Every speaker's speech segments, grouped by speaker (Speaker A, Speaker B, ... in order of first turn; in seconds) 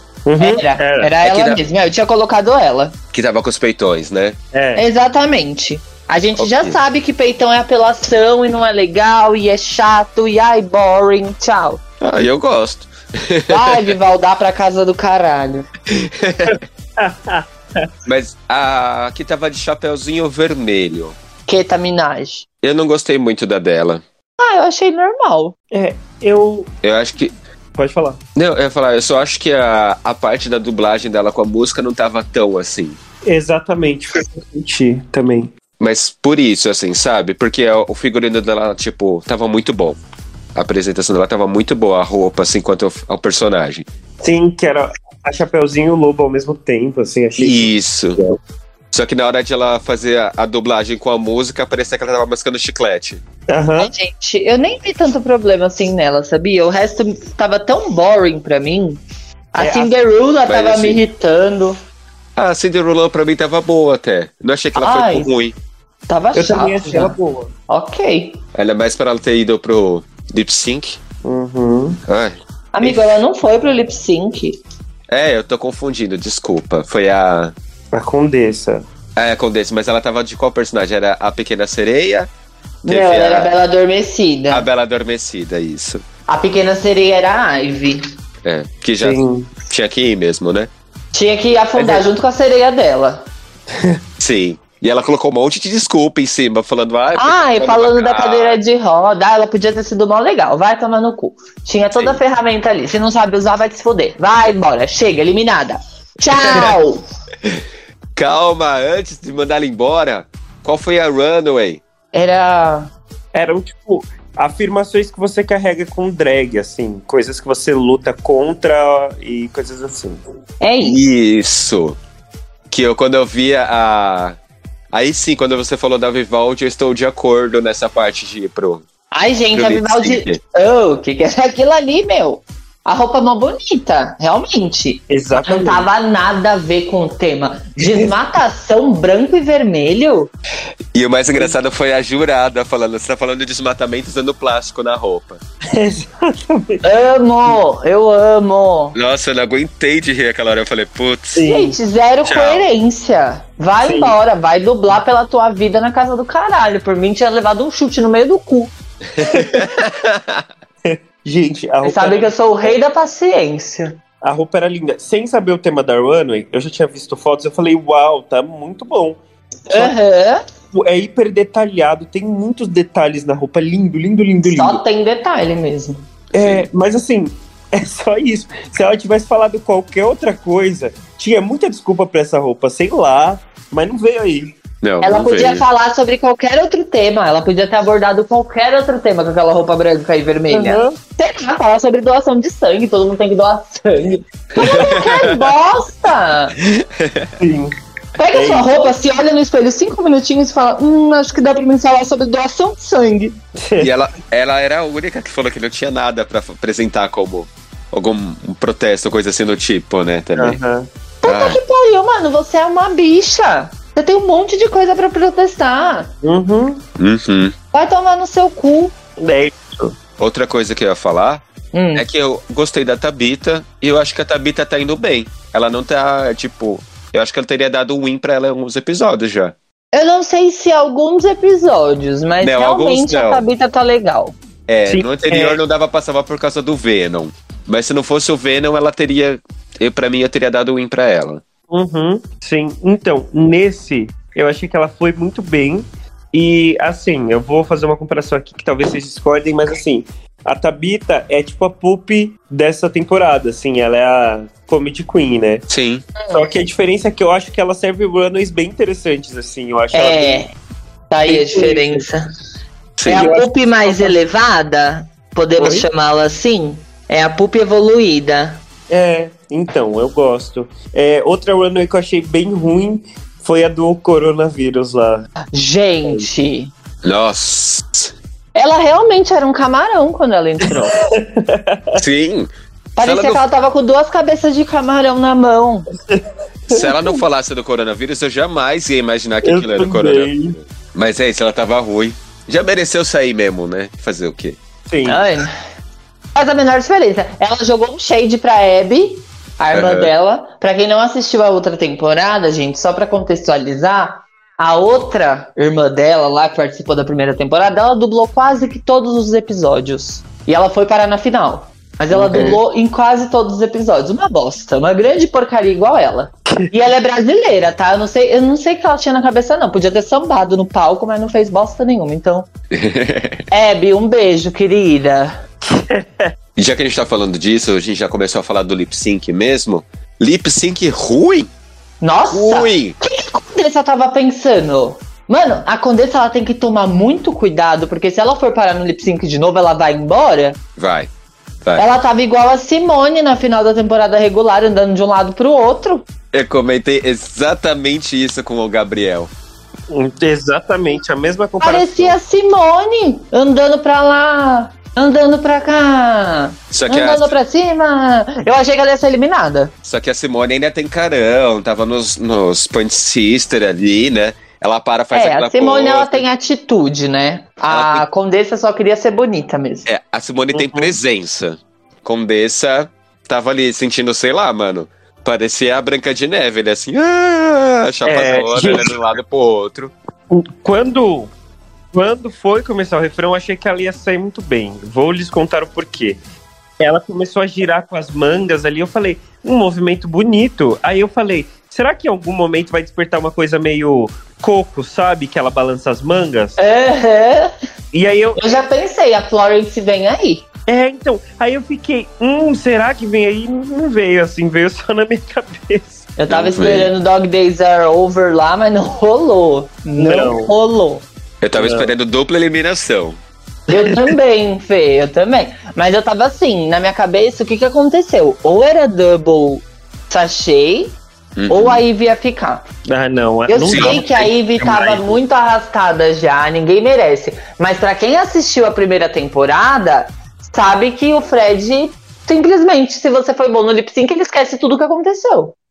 Speaker A: 0.3-1.1, 4.5-4.9, 16.5-17.9, 25.7-26.7, 27.8-28.2, 33.2-35.5, 44.2-48.4, 53.5-53.9, 59.6-59.9, 66.3-67.5, 71.2-72.0, 77.9-78.8, 89.0-89.5, 91.8-92.1, 93.7-94.0, 113.3-120.2, 135.1-135.9, 137.8-138.1, 145.7-146.8, 151.3-151.8, 153.8-154.2, 159.3-159.7, 160.8-162.8, 164.2-169.9, 170.7-174.8, 176.3-184.6, 190.5-191.0, 197.4-197.7, 198.3-198.9, 203.6-203.9, 210.4-210.9, 216.2-216.8, 219.2-220.0, 234.9-235.6, 241.7-255.7, 256.3-260.5, 261.3-262.1, 263.1-264.2, 265.6-265.9, 268.9-275.3, 280.6-282.0, 286.1-287.2, 289.4-290.6, 294.9-295.2, 312.1-312.6, 325.7-326.3, 349.9-352.2, 370.5-371.0, 378.1-378.9, 380.3-381.3, 381.9-386.2, 386.8-396.6, 397.9-398.4, 400.7-406.1, 410.0-410.5, 411.6-411.9, 413.7-414.0, 422.9-425.2
Speaker B: 0.4-3.0, 4.8-11.8, 13.5-15.7, 21.5-22.5, 24.4-25.6, 53.8-59.0, 59.5-61.8, 64.8-65.3, 66.1-67.2, 67.7-68.4, 72.7-74.6, 82.8-84.7, 86.3-88.0, 91.1-93.3, 97.2-107.0, 112.1-112.9, 120.6-121.0, 129.1-140.3, 146.8-149.0, 151.4-158.7, 161.8-164.0, 169.7-170.4, 174.4-176.1, 185.0-196.6, 198.2-203.4, 211.2-216.1, 217.7-218.9, 221.7-222.1, 229.9-234.3, 256.2-256.5, 259.9-260.5, 261.1-262.3, 263.1-268.6, 275.5-276.7, 278.6-281.0, 283.0-285.9, 295.1-295.5, 296.4-322.5, 323.5-325.4, 332.0-340.6, 341.8-346.1, 351.6-359.7, 365.1-369.9, 396.6-397.5, 398.4-400.4, 406.2-411.1, 413.7-421.0, 421.5-422.6, 423.5-435.6
Speaker C: 1.2-1.6, 3.1-4.4, 6.4-6.8, 12.0-13.9, 15.9-16.6, 18.1-21.2, 22.6-24.0, 26.8-27.4, 28.4-33.0, 35.8-40.0, 40.5-43.9, 47.4-48.2, 48.9-53.2, 60.5-61.0, 62.4-65.6, 68.5-71.0, 72.1-73.2, 75.1-77.5, 79.2-82.3, 82.9-83.5, 84.5-86.0, 88.4-90.7, 94.2-98.6, 108.2-111.8, 120.8-122.0, 122.7-124.4, 124.9-128.8, 129.5-130.4, 140.9-145.4, 148.9-151.4, 152.3-152.7, 159.2-160.4, 176.4-176.7, 184.8-185.7, 194.6-195.5, 196.6-197.3, 203.8-210.6, 211.2-211.6, 217.0-217.5, 220.2-221.4, 221.9-229.6, 232.4-233.4, 234.7-241.4, 255.7-256.1, 263.0-263.3, 277.0-278.1, 282.0-283.4, 286.7-294.6, 299.7-300.1, 322.7-323.4, 326.6-331.5, 332.3-333.0, 340.8-341.1, 346.3-349.3, 356.7-357.3, 359.8-366.2, 367.7-368.1, 369.9-379.9, 406.3-406.9, 411.4-413.2, 421.4-421.8, 423.7-424.0